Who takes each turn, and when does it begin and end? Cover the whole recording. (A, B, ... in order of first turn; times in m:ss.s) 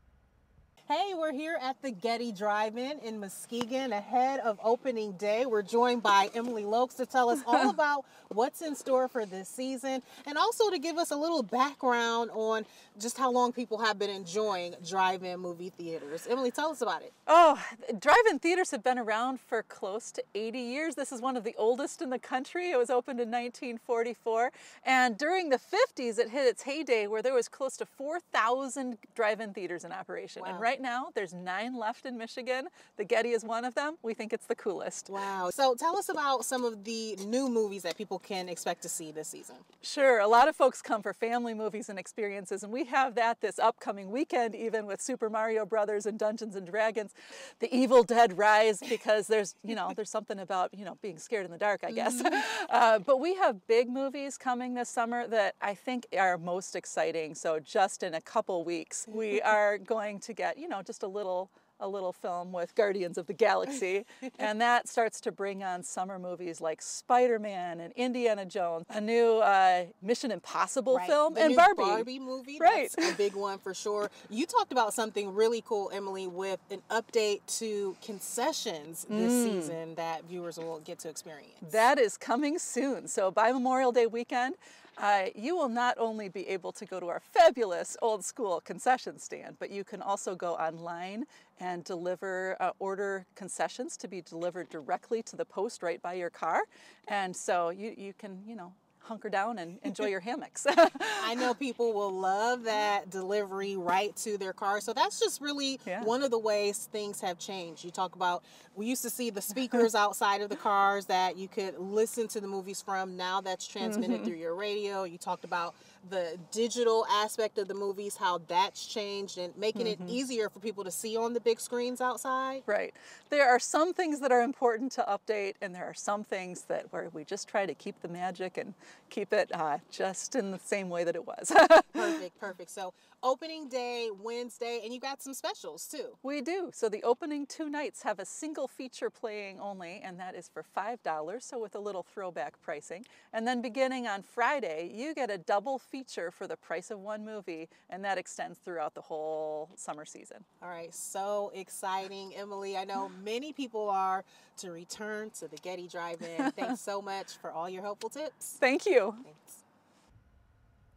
0:00.9-0:17.1 A
0:17.3-0:35.1 B
0:30.4-0:30.7 A
0:35.1-0:39.6 A
0:39.8-1:12.1 B
0:52.1-0:52.4 A
1:10.9-1:21.8 A
1:12.6-1:13.2 B
1:19.1-1:19.8 B
1:21.6-1:41.5 B
1:41.2-2:02.6 A
1:53.8-1:54.3 B
1:59.7-2:00.2 B
2:02.7-2:12.2 B
2:11.9-2:16.2 A
2:16.2-2:30.4 B
2:30.6-2:38.6 A
2:38.6-2:39.2 B
2:39.2-2:39.6 A